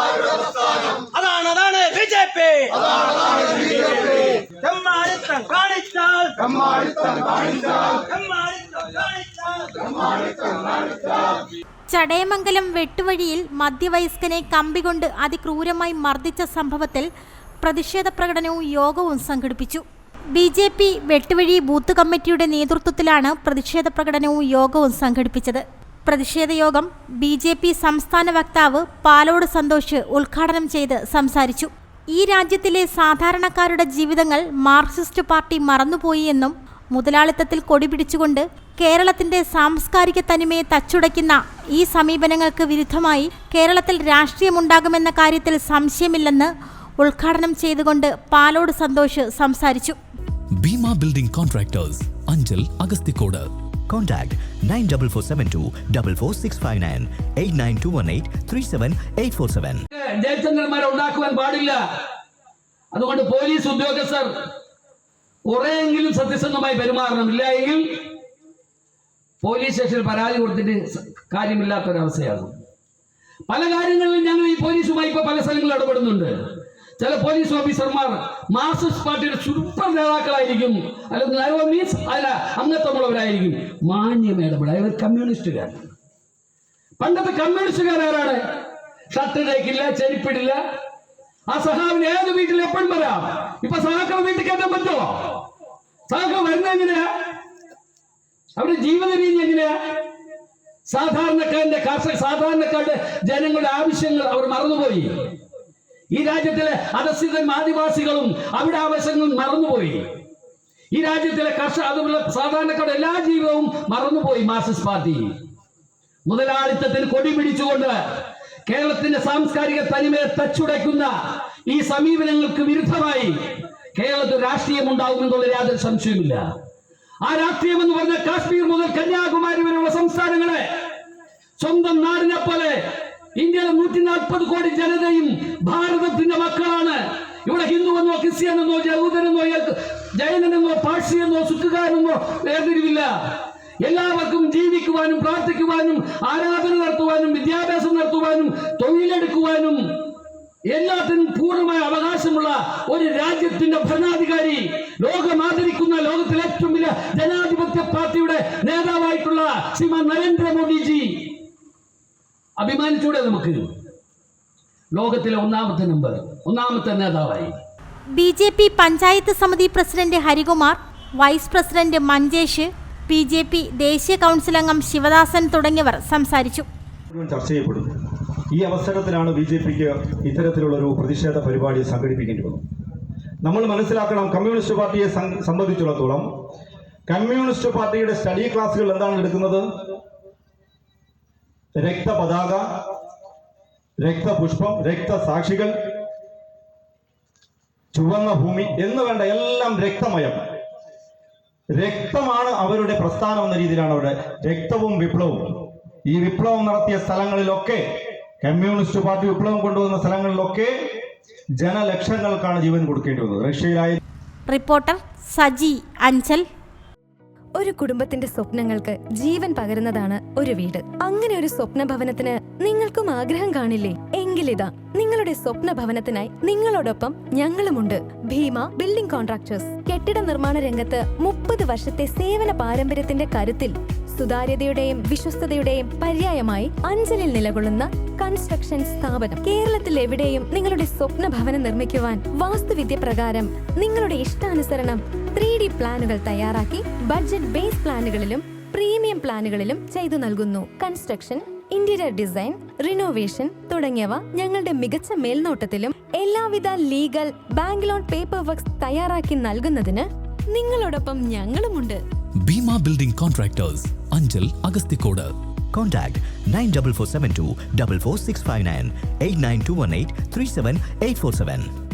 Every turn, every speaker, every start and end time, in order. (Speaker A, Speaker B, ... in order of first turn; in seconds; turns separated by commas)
Speaker A: 1.1-11.1, Speaker B: 11.9-17.1, Speaker B: 17.6-50.0, Speaker C: 50.6-53.5, Speaker D: 53.9-59.8, Speaker E: 59.9-61.8, Speaker E: 62.9-64.3, Speaker E: 65.5-67.8, Speaker E: 69.4-72.5, Speaker E: 73.5-76.3, Speaker E: 77.0-85.9, Speaker E: 87.0-88.4, Speaker E: 89.1-90.6, Speaker E: 91.5-95.4, Speaker E: 96.1-97.1, Speaker E: 98.6-100.0, Speaker E: 100.9-105.1, Speaker E: 106.1-110.1, Speaker E: 110.9-115.3, Speaker E: 116.3-118.0, Speaker E: 118.7-121.1, Speaker E: 121.7-123.4, Speaker E: 124.0-126.5, Speaker E: 127.2-130.7, Speaker E: 131.6-132.8, Speaker E: 133.4-143.1, Speaker E: 143.8-149.8, Speaker E: 150.7-161.3, Speaker E: 162.6-163.7, Speaker E: 164.9-167.6, Speaker B: 168.1-176.7, Speaker F: 177.1-177.9, Speaker F: 178.5-182.6, Speaker F: 183.4-186.3, Speaker F: 187.1-189.7, Speaker F: 191.8-192.7, Speaker F: 194.0-195.7, Speaker F: 197.9-200.4, Speaker F: 201.8-207.8, Speaker F: 208.4-210.7, Speaker F: 211.6-214.0, Speaker B: 214.5-216.4, Speaker G: 217.6-262.0, Speaker C: 262.5-265.3, Speaker D: 265.7-271.7